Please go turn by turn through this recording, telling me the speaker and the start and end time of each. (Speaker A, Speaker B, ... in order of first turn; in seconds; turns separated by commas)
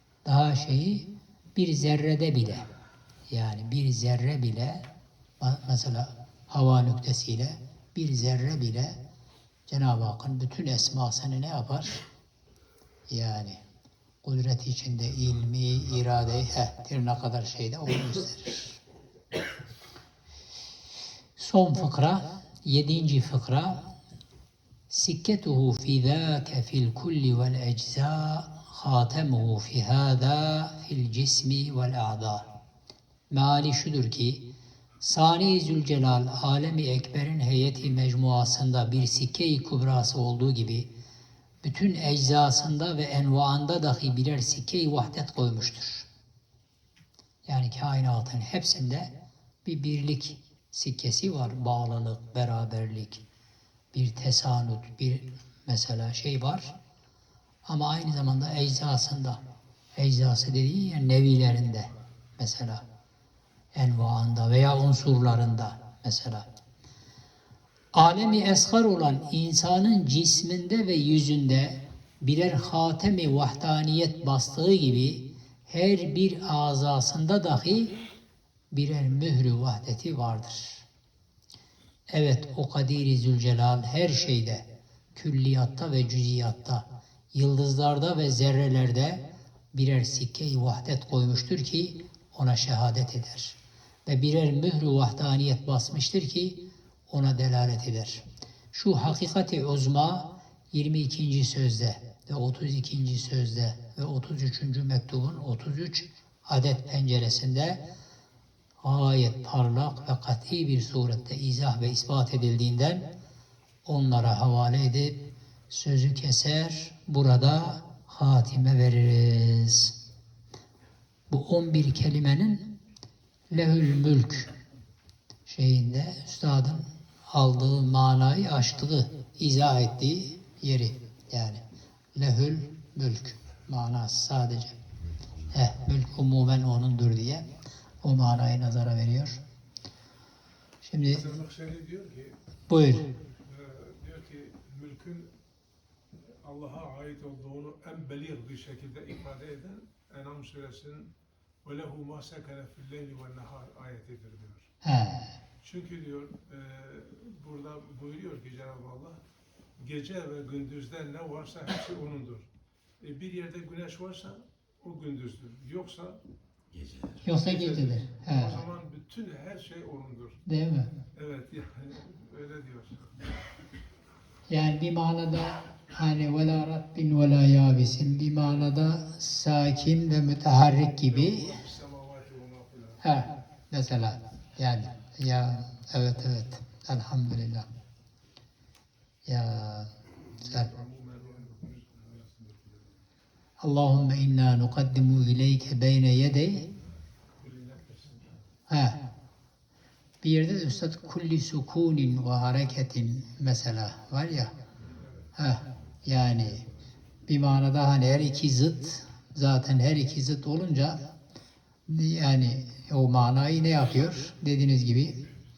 Speaker A: 0.2-2.6, Speaker A: 3.3-4.8, Speaker A: 5.4-8.9, Speaker A: 9.7-12.0, Speaker A: 13.1-13.6, Speaker A: 14.2-18.8, Speaker A: 21.4-23.8, Speaker A: 24.9-32.5, Speaker A: 33.3-34.4, Speaker A: 35.0-40.9, Speaker A: 41.6-46.1, Speaker A: 47.5-49.1, Speaker A: 49.6-53.2, Speaker A: 53.9-56.7, Speaker A: 57.6-59.4, Speaker A: 60.0-62.8, Speaker A: 63.7-66.5, Speaker A: 67.9-77.9, Speaker A: 78.7-80.8, Speaker A: 82.1-84.6, Speaker A: 85.2-107.8, Speaker A: 108.8-113.0, Speaker A: 113.8-115.2, Speaker A: 115.7-119.9, Speaker A: 121.3-122.7, Speaker A: 123.5-124.5, Speaker A: 125.5-131.6, Speaker A: 132.2-134.8, Speaker A: 135.5-137.5, Speaker A: 138.0-139.4, Speaker A: 140.8-141.2, Speaker B: 141.1-142.3, Speaker A: 142.7-143.1, Speaker B: 143.4-145.3, Speaker B: 146.3-151.1, Speaker B: 151.6-154.7, Speaker A: 154.8-155.3, Speaker B: 155.6-159.2, Speaker B: 159.8-162.5, Speaker B: 163.0-166.2, Speaker B: 167.0-170.4, Speaker A: 167.2-168.6, Speaker A: 170.5-170.9, Speaker B: 171.1-173.2, Speaker A: 174.5-181.5, Speaker B: 181.0-183.1, Speaker A: 183.0-187.7, Speaker A: 189.3-190.7, Speaker B: 190.4-193.0, Speaker A: 193.6-196.7, Speaker B: 197.4-198.4, Speaker A: 198.7-199.0, Speaker A: 200.2-204.5, Speaker B: 204.9-205.2, Speaker A: 205.3-206.7, Speaker A: 207.3-211.0, Speaker A: 211.9-215.2